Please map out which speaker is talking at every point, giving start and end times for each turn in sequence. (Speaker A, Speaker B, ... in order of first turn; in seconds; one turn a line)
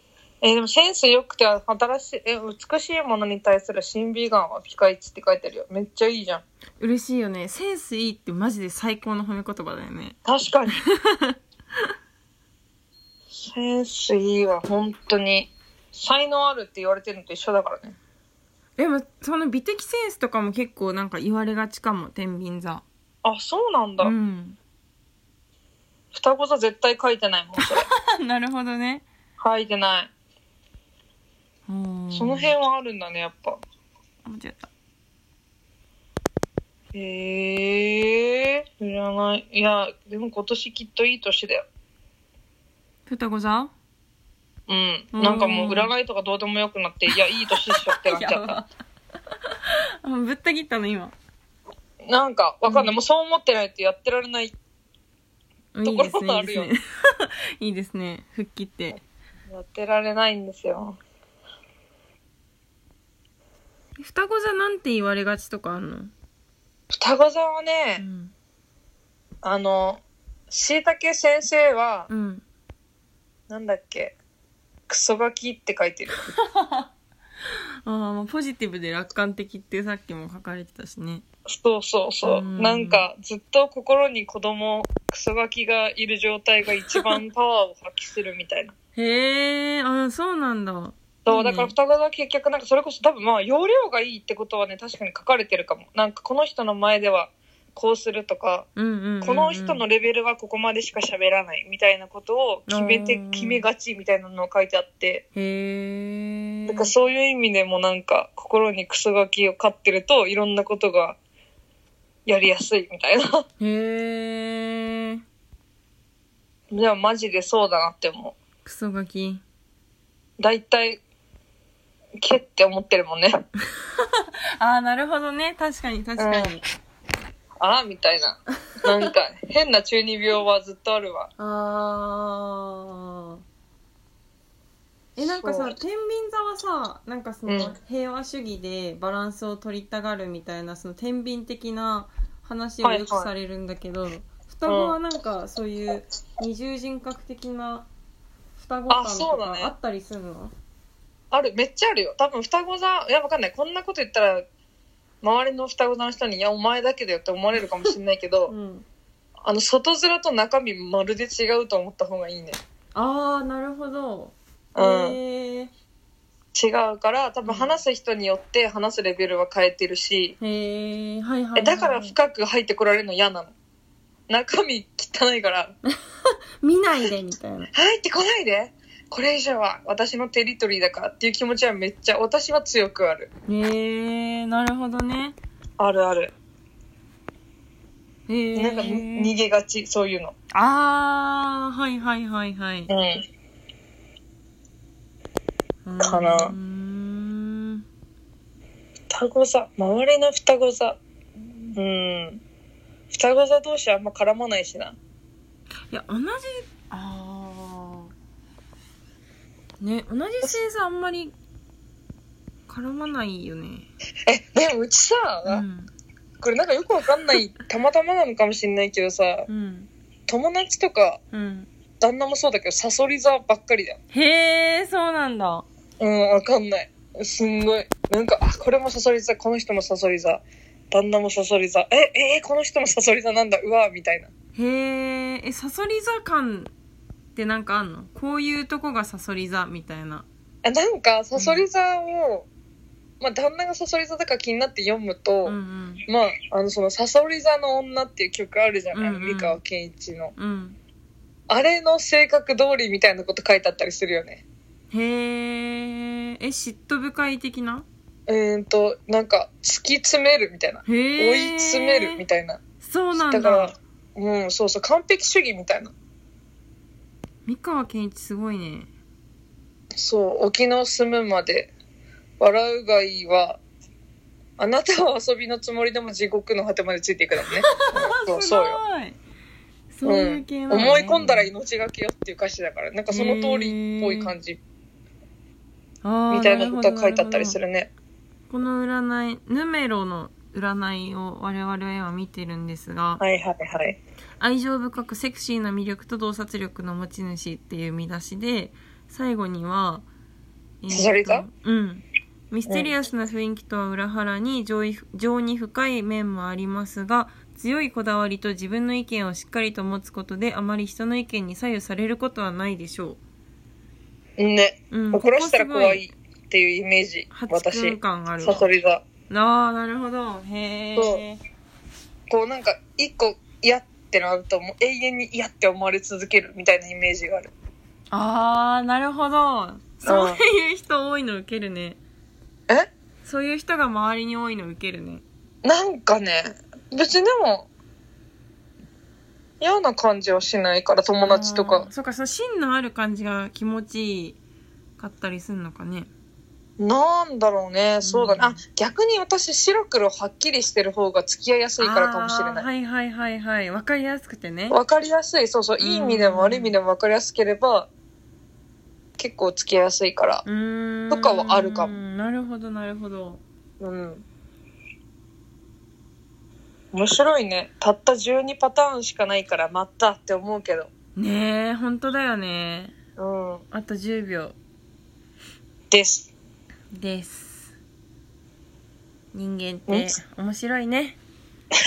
Speaker A: 0.4-6.4
Speaker B: 6.8-10.2
Speaker A: 10.2-10.8
Speaker B: 10.8-11.3
Speaker A: 13.4-17.9
Speaker B: 18.8-22.8
Speaker A: 23.2-24.1
Speaker B: 24.0-24.6
Speaker A: 26.1-27.9
Speaker B: 27.6-29.0
Speaker A: 29.4-30.1
Speaker B: 31.7-32.5
Speaker A: 32.1-33.6
Speaker B: 34.2-34.7
Speaker A: 36.9-41.6
Speaker B: 43.1-43.7
Speaker A: 44.7-48.6
Speaker B: 45.1-45.9
Speaker B: 48.0-48.7
Speaker B: 50.0-51.1
Speaker A: 52.0-54.5
Speaker B: 52.7-52.9
Speaker B: 55.7-59.0
Speaker A: 55.8-56.7
Speaker A: 59.5-61.0
Speaker B: 64.0-66.1
Speaker A: 66.9-68.0
Speaker B: 68.0-68.3
Speaker A: 69.4-72.1
Speaker B: 72.1-72.4
Speaker A: 73.5-74.2
Speaker A: 74.9-76.2
Speaker B: 76.5-76.9
Speaker B: 77.8-81.2
Speaker A: 81.5-88.7
Speaker B: 82.2-83.0
Speaker B: 89.0-91.7
Speaker A: 91.2-98.7
Speaker B: 98.8-99.8
Speaker A: 99.2-105.2
Speaker B: 102.7-103.6
Speaker B: 105.3-106.9
Speaker A: 106.7-111.2
Speaker A: 112.2-113.5
Speaker B: 113.6-115.2
Speaker A: 116.7-118.3
Speaker B: 118.6-119.4
Speaker A: 120.4-121.0
Speaker A: 122.2-123.3
Speaker B: 124.0-126.6
Speaker A: 126.2-126.6
Speaker A: 127.6-131.3
Speaker B: 131.4-133.4
Speaker B: 135.2-147.9
Speaker A: 135.2-135.8
Speaker A: 137.5-137.8
Speaker A: 142.8-143.3
Speaker A: 144.7-145.0
Speaker B: 148.6-150.5
Speaker A: 148.9-149.7
Speaker A: 151.3-154.4
Speaker A: 155.2-158.5
Speaker B: 158.5-158.8
Speaker A: 159.4-162.6
Speaker B: 162.9-165.7
Speaker A: 164.8-165.2
Speaker A: 166.5-170.4
Speaker B: 167.4-167.8
Speaker B: 170.4-172.1
Speaker A: 171.5-173.5
Speaker A: 174.3-175.7
Speaker B: 176.6-177.7
Speaker A: 177.7-183.3
Speaker B: 183.5-185.3
Speaker A: 185.8-186.3
Speaker B: 188.3-189.3
Speaker A: 188.5-190.3
Speaker B: 190.5-192.9
Speaker A: 192.9-193.2
Speaker B: 195.8-197.8
Speaker A: 196.0-196.5
Speaker A: 199.1-201.0
Speaker A: 201.7-202.4
Speaker A: 203.1-204.9
Speaker B: 205.9-208.1
Speaker B: 209.8-211.3
Speaker B: 212.7-213.9
Speaker A: 214.3-215.6
Speaker B: 215.4-215.9
Speaker A: 216.4-219.5
Speaker B: 219.5-219.9
Speaker A: 220.3-221.2
Speaker B: 221.3-221.7
Speaker A: 222.0-224.0
Speaker B: 224.1-225.6
Speaker A: 226.0-234.3
Speaker B: 234.5-236.7
Speaker B: 237.3-240.2
Speaker A: 240.6-242.5
Speaker B: 241.3-241.7
Speaker A: 243.2-250.3
Speaker B: 245.4-246.0
Speaker B: 248.9-249.6
Speaker B: 250.4-250.8
Speaker A: 251.5-254.4
Speaker B: 254.9-257.9
Speaker A: 258.3-262.6
Speaker B: 260.9-262.2
Speaker B: 262.8-263.7
Speaker A: 263.1-265.9
Speaker B: 267.4-268.9
Speaker A: 270.0-271.7
Speaker A: 272.4-273.6
Speaker A: 274.6-278.8
Speaker B: 277.5-279.2
Speaker B: 279.9-281.5
Speaker A: 280.0-284.6
Speaker B: 283.1-284.3
Speaker B: 286.0-287.6
Speaker A: 286.3-287.9
Speaker B: 288.5-293.2
Speaker A: 293.2-294.0
Speaker B: 294.4-300.1
Speaker B: 300.8-313.2
Speaker A: 300.9-301.5
Speaker A: 302.7-302.9
Speaker A: 314.4-319.0
Speaker B: 314.9-316.1
Speaker B: 317.3-318.7
Speaker B: 319.3-321.4
Speaker A: 320.9-321.2
Speaker A: 322.3-327.5
Speaker B: 328.1-332.0
Speaker A: 330.0-330.4
Speaker B: 333.2-335.2
Speaker A: 335.6-337.7
Speaker A: 339.6-341.9
Speaker B: 341.2-344.4
Speaker B: 345.0-346.1
Speaker A: 346.8-352.7
Speaker B: 348.0-348.6
Speaker B: 351.8-354.8
Speaker A: 354.7-357.9
Speaker B: 355.8-356.7
Speaker A: 359.2-360.4
Speaker B: 360.4-363.4
Speaker A: 361.1-362.0
Speaker A: 363.8-364.2
Speaker A: 366.9-370.9
Speaker B: 371.1-372.9
Speaker A: 373.2-373.6
Speaker B: 373.7-374.5
Speaker A: 375.9-376.3
Speaker B: 376.9-377.7
Speaker B: 379.3-381.2
Speaker A: 379.9-380.2